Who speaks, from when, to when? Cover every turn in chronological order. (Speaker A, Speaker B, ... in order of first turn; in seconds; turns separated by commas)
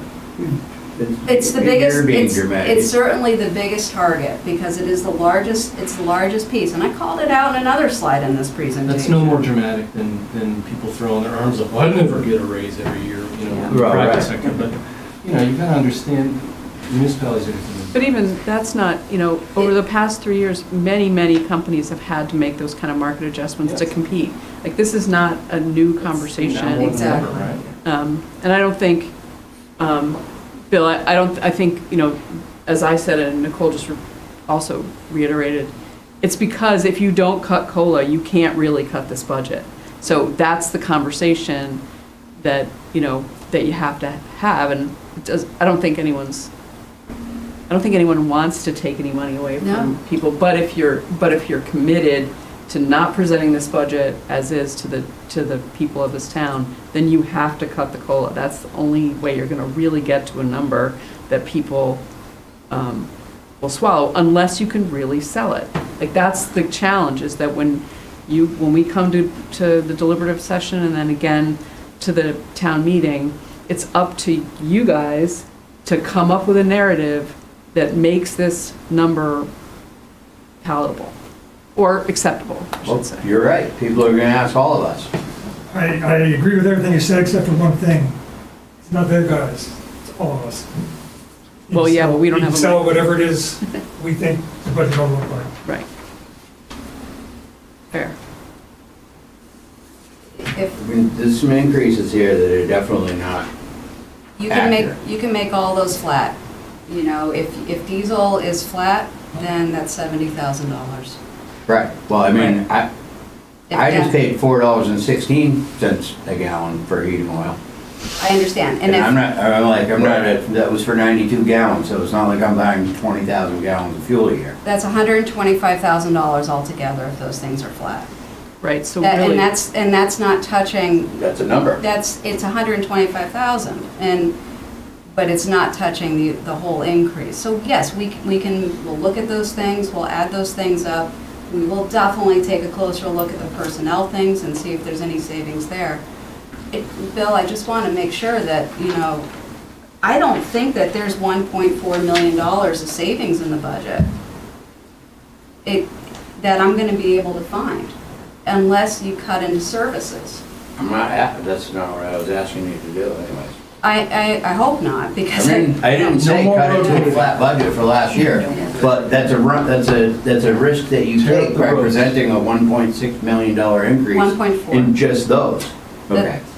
Speaker A: 0.4-2.9, Speaker B: 1.3-9.5, Speaker C: 8.8-18.4, Speaker A: 13.7-14.3, Speaker D: 17.9-29.1, Speaker C: 23.6-23.9, Speaker C: 26.1-27.7, Speaker B: 26.8-27.4, Speaker D: 29.8-41.8, Speaker D: 42.4-46.5, Speaker D: 47.7-62.0, Speaker B: 49.6-49.9, Speaker D: 62.7-63.1, Speaker D: 63.6-79.5, Speaker D: 80.6-81.1, Speaker D: 81.8-83.3, Speaker A: 82.8-85.1, Speaker E: 85.7-88.2, Speaker E: 88.8-90.9, Speaker E: 91.7-95.5, Speaker D: 91.7-93.1, Speaker B: 100.4-100.7, Speaker A: 100.8-103.5, Speaker B: 104.4-106.3, Speaker A: 104.5-104.9, Speaker B: 106.9-111.2, Speaker A: 111.7-112.9, Speaker B: 113.7-114.1, Speaker A: 113.7-117.6, Speaker B: 118.2-119.1, Speaker A: 118.8-124.5, Speaker B: 124.6-128.1, Speaker D: 128.6-129.5, Speaker B: 129.0-131.1, Speaker A: 131.2-131.8, Speaker B: 131.8-134.3, Speaker B: 135.1-146.0, Speaker B: 146.7-149.3, Speaker B: 150.0-154.1, Speaker B: 155.6-157.9, Speaker B: 158.4-160.4, Speaker A: 160.8-163.5, Speaker B: 163.8-167.1, Speaker A: 165.3-176.4, Speaker C: 166.2-167.3, Speaker B: 168.5-168.8, Speaker C: 171.2-172.0, Speaker B: 174.1-174.9